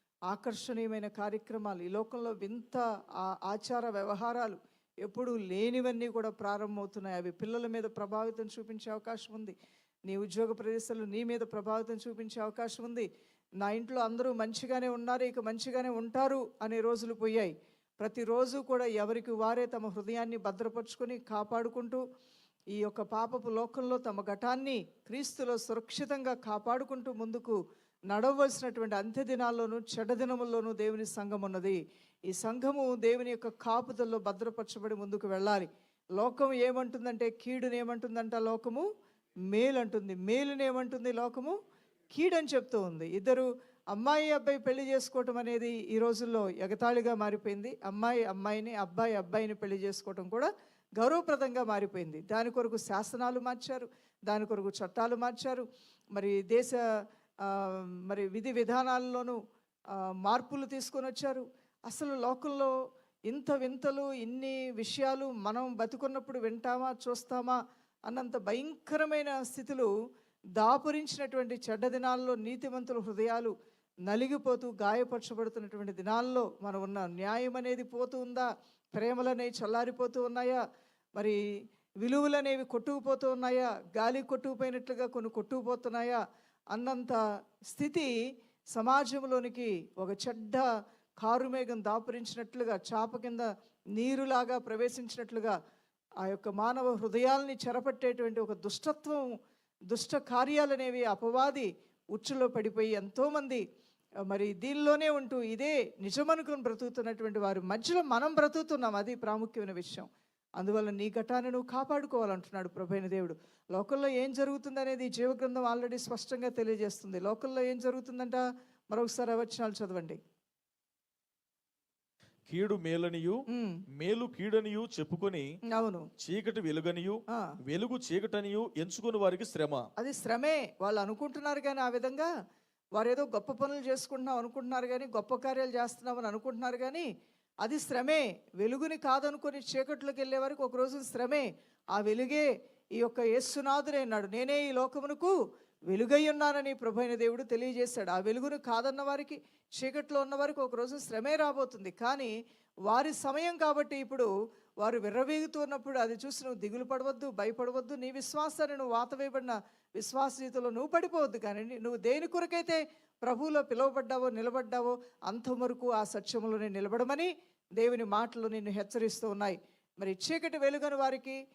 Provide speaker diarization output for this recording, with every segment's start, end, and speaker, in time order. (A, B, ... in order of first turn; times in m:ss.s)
0:00.3-0:09.6 A
0:10.1-0:13.1 A
0:13.6-0:22.0 A
0:22.7-0:27.6 A
0:28.1-0:38.9 A
0:39.5-0:41.6 A
0:42.1-0:56.8 A
0:57.4-0:59.4 A
1:00.2-1:02.7 A
1:03.3-1:07.6 A
1:08.1-1:09.9 A
1:10.6-1:13.5 A
1:14.1-1:20.6 A
1:22.0-1:26.2 A
1:26.7-1:27.2 A
1:27.7-1:28.1 A
1:28.7-1:30.6 A
1:31.2-1:35.6 A
1:36.2-1:39.2 A
1:39.9-1:43.6 A
1:44.3-1:50.1 A
1:50.6-2:00.2 A
2:02.5-2:03.4 B
2:03.5-2:03.8 A
2:04.0-2:05.5 B
2:05.7-2:06.1 A
2:06.2-2:09.9 B
2:10.0-2:12.3 A
2:13.0-2:17.1 A
2:17.6-2:25.3 A
2:25.9-2:32.3 A
2:32.9-2:34.3 A
2:34.8-2:51.4 A